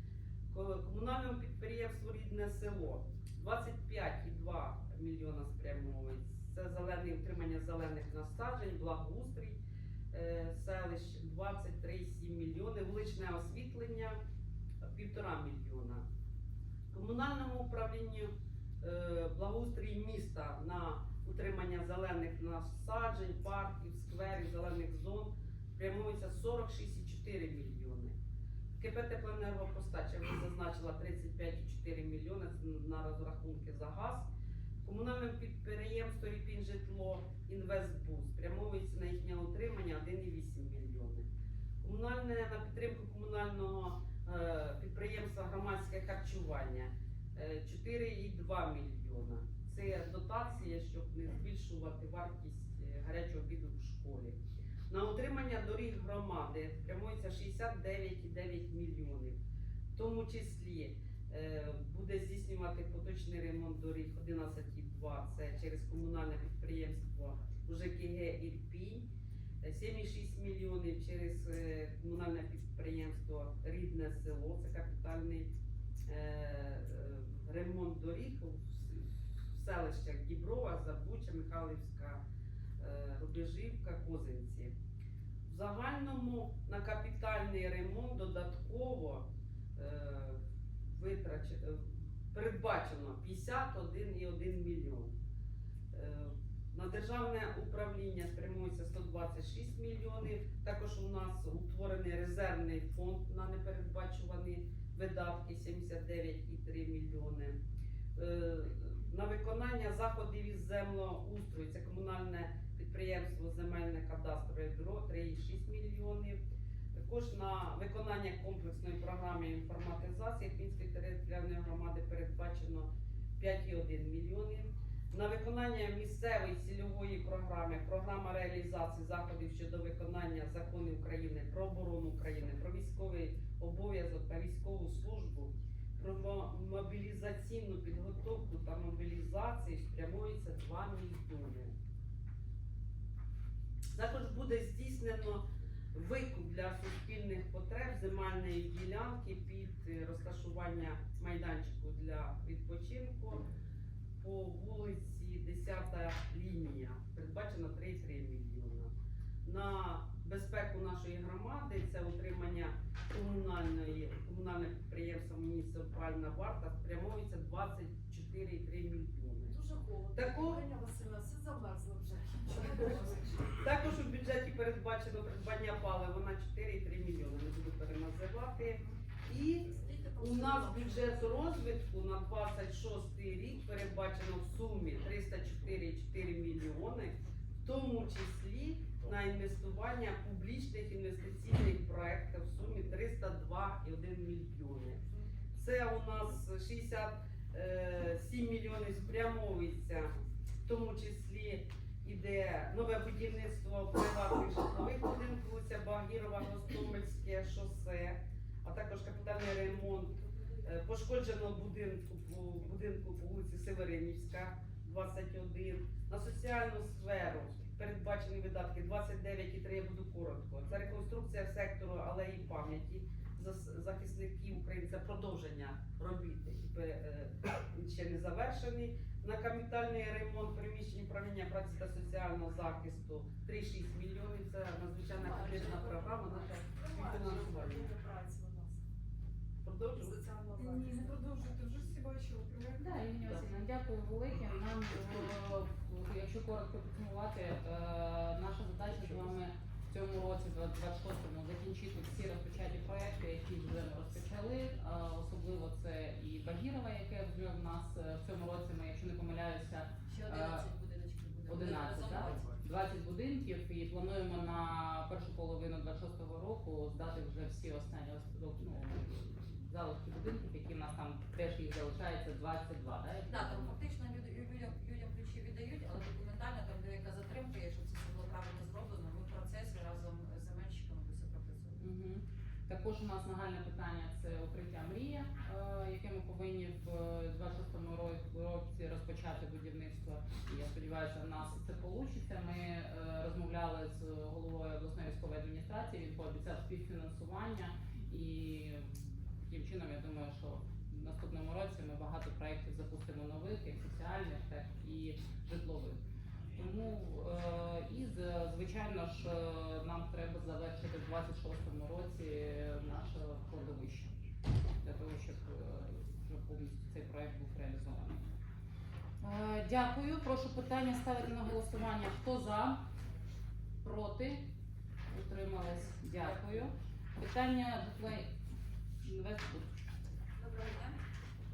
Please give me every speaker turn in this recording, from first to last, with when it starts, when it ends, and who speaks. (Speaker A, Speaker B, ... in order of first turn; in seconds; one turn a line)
Speaker A: 0.5-9.6
Speaker A: 10.1-14.2
Speaker A: 14.8-16.0
Speaker A: 16.9-28.1
Speaker A: 28.8-34.3
Speaker A: 34.8-41.3
Speaker A: 41.8-59.4
Speaker A: 60.0-69.1
Speaker A: 69.6-75.5
Speaker A: 76.1-82.2
Speaker A: 82.8-84.7
Speaker A: 85.5-95.2
Speaker A: 95.9-107.6
Speaker A: 108.2-116.4
Speaker A: 117.0-141.7
Speaker A: 143.9-153.5
Speaker A: 154.2-158.9
Speaker A: 159.4-169.6
Speaker B: 169.4-173.7
Speaker A: 170.2-170.6
Speaker A: 173.6-195.0
Speaker B: 179.7-181.5
Speaker A: 195.6-200.1
Speaker A: 200.7-237.9
Speaker B: 209.0-210.7
Speaker B: 235.2-238.8
Speaker A: 239.6-240.2
Speaker B: 239.9-241.2
Speaker C: 240.6-243.2
Speaker D: 242.8-260.7
Speaker B: 260.1-262.5
Speaker D: 261.5-273.7
Speaker E: 261.6-262.4
Speaker E: 273.3-281.8
Speaker D: 281.8-306.0
Speaker D: 306.6-314.1
Speaker D: 314.8-318.3
Speaker D: 319.2-322.8
Speaker D: 323.8-324.5
Speaker D: 325.1-328.3
Speaker D: 329.0-329.9
Speaker E: 330.4-331.0